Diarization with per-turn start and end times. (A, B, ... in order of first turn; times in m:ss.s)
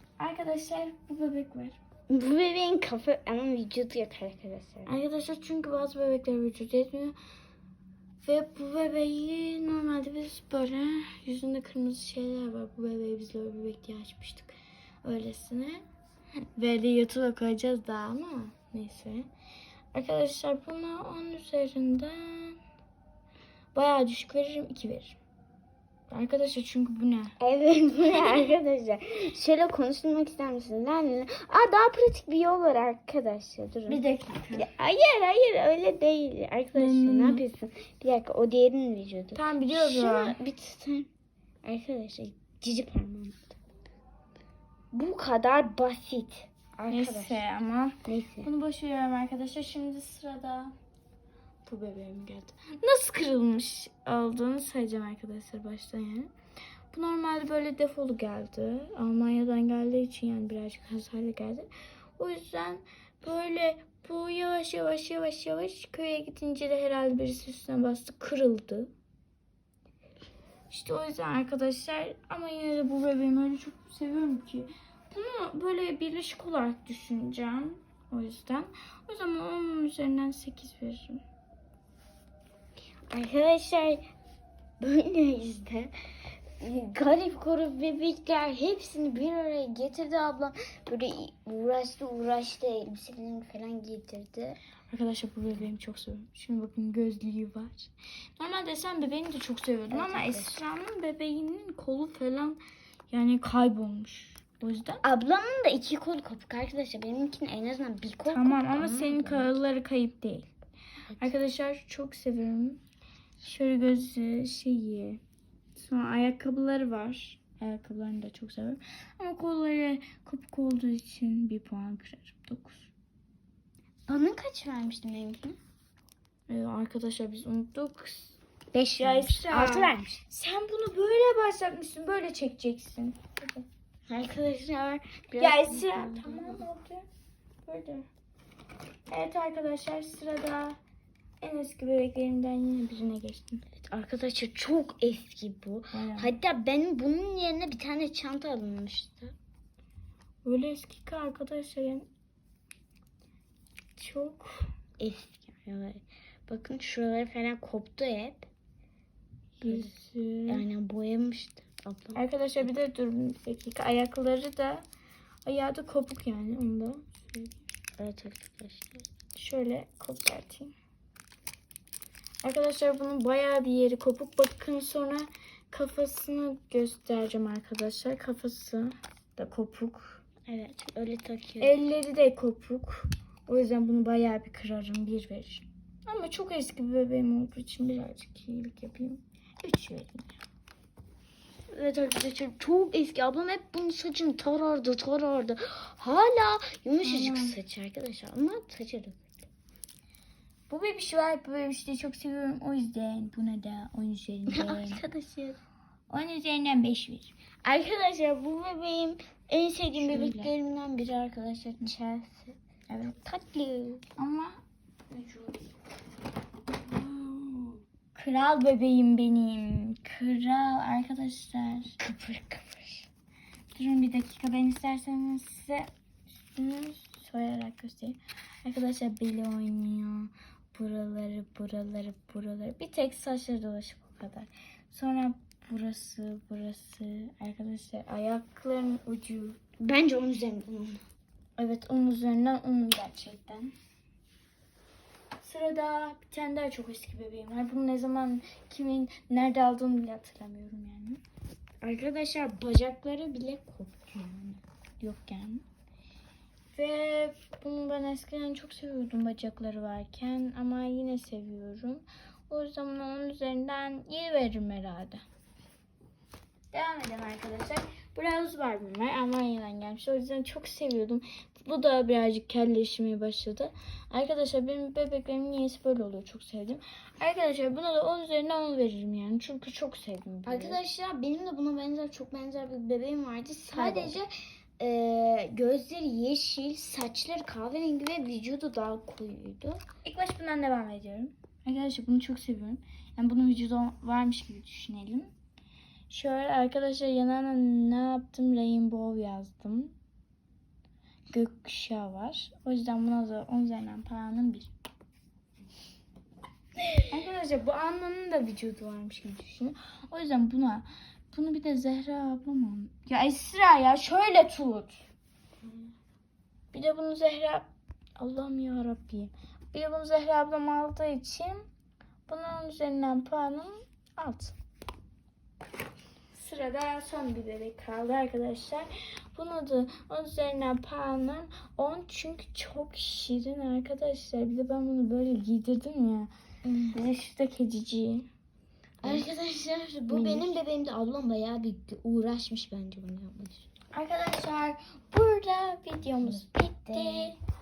0:00.2-0:01.8 A
0:02.1-0:04.9 B
0:04.9-0:07.2 A
0:08.2-0:15.8 A
0:16.6-0:19.3 A
0:19.9-0:22.6 A
0:23.7-0:25.2 A
0:26.1-0:27.4 A
0:27.4-0:34.0 B
0:33.9-0:34.7 A
0:34.5-0:41.1 B
0:36.8-0:37.4 A
0:39.3-0:40.4 A
0:41.6-0:43.6 B
0:44.9-0:47.4 B
0:46.9-0:50.7 A
0:48.1-0:48.5 B
0:51.6-0:56.3 A
0:56.9-1:08.9 A
1:10.7-1:21.2 A
1:23.1-1:24.0 B
1:24.8-1:25.9 B
1:26.6-1:34.6 B
1:34.9-1:42.6 A
1:39.9-1:40.6 B
1:43.1-1:45.0 A
1:45.0-1:49.5 B
1:48.3-1:50.5 A
1:51.2-1:52.8 A
1:53.4-1:55.2 A
1:55.8-2:02.9 A
2:04.1-2:05.6 B
2:06.5-2:08.4 A
2:08.7-2:10.2 B
2:09.0-2:13.7 A
2:14.1-2:16.6 B
2:15.4-2:17.0 A
2:17.6-2:18.1 A
2:19.1-2:20.8 A
2:21.4-2:23.7 A
2:23.8-2:29.3 B
2:25.9-2:26.3 A
2:30.4-2:32.1 A
2:34.0-2:34.7 A
2:35.0-2:38.5 B
2:39.6-2:39.9 B
2:39.6-2:40.6 A
2:40.5-2:42.2 B
2:42.2-2:44.8 A
2:45.4-2:47.6 A
2:48.0-2:49.1 B
2:49.4-2:50.7 A
2:52.4-3:00.2 A
3:00.5-3:01.8 B
3:01.6-3:10.4 A
3:11.7-3:19.5 B
3:17.0-3:17.6 A
3:20.7-3:25.0 A
3:24.5-3:25.6 B
3:26.1-3:27.4 A
3:27.6-3:32.6 B
3:30.0-3:30.5 A
3:32.9-3:33.2 A
3:33.2-3:34.0 B
3:34.2-3:34.6 A
3:35.1-3:35.7 A
3:36.9-3:42.0 A
3:42.0-3:43.1 B
3:43.7-3:45.9 A
3:46.5-3:59.6 A
3:59.8-4:01.0 B
4:01.6-4:03.7 A
4:05.4-4:11.2 A
4:11.8-4:14.6 B
4:15.0-4:15.6 A
4:16.7-4:25.2 A
4:26.7-4:40.8 A
4:40.5-4:44.3 B
4:43.7-4:44.3 A
4:44.8-4:49.8 B
4:50.0-4:55.3 A
4:56.1-4:59.9 A
5:01.3-5:04.7 A
5:07.1-5:15.0 A
5:16.7-5:17.7 A
5:18.2-5:21.7 A
5:22.3-5:24.6 A
5:26.3-5:36.3 A
5:36.6-5:37.0 B
5:36.9-5:38.3 A
5:39.0-5:43.7 B
5:40.1-5:40.6 A
5:43.9-5:47.4 A
5:46.2-5:47.4 B